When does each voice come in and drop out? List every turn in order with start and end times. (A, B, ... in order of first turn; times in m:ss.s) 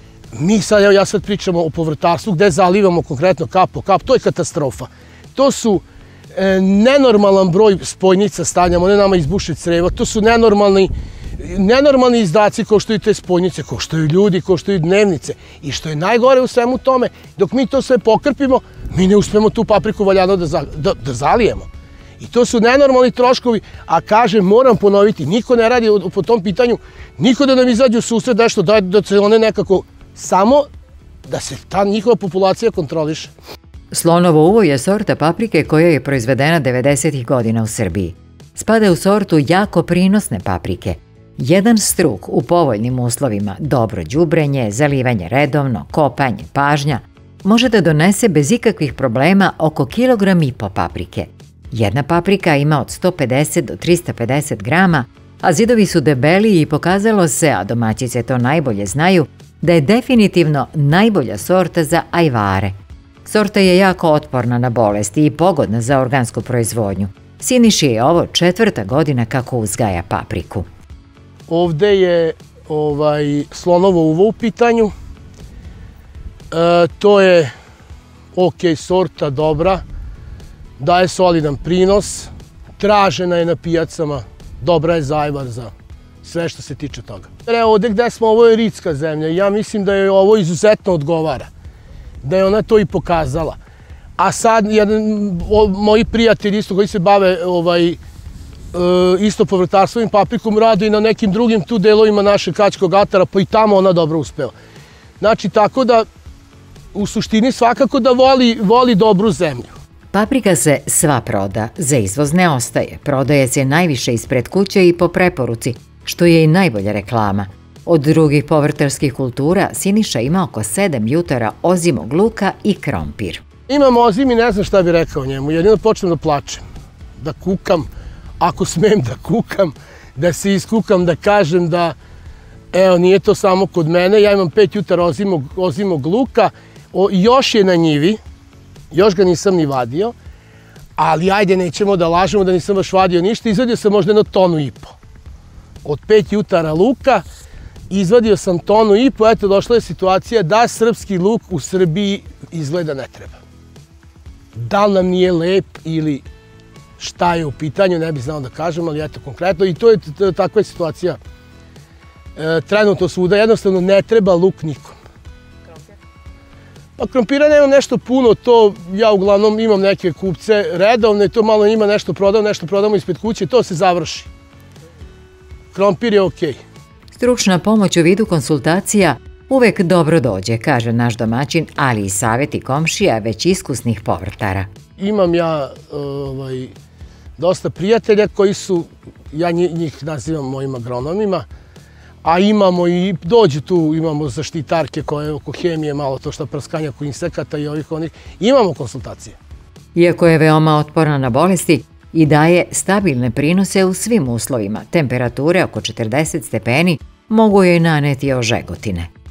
0:00.3-0:21.7 A
0:22.2-0:30.6 A
0:31.3-0:33.3 A
0:33.9-1:02.7 B
1:03.2-1:10.7 B
1:11.5-1:14.9 A
1:16.5-1:17.5 A
1:18.3-1:19.8 A
1:20.8-1:25.7 A
1:26.2-1:31.5 A
1:32.2-1:33.6 A
1:34.2-1:38.0 A
1:38.7-1:44.5 A
1:45.2-1:46.0 A
1:46.9-1:49.7 A
1:50.1-2:03.4 B
2:03.7-2:06.6 A
2:07.2-2:07.9 A
2:08.4-2:12.0 A
2:12.7-2:18.2 A
2:18.9-2:20.1 A
2:21.0-2:24.9 A
2:25.8-2:27.2 A
2:27.9-2:33.4 A
2:34.5-2:36.2 A
2:37.0-2:41.2 A
2:42.4-2:45.0 A
2:47.0-2:54.3 A
2:55.7-2:56.6 A
2:57.1-3:04.7 B
3:05.0-3:06.7 A
3:07.4-3:11.4 A
3:12.2-3:19.4 A
3:19.9-3:29.1 B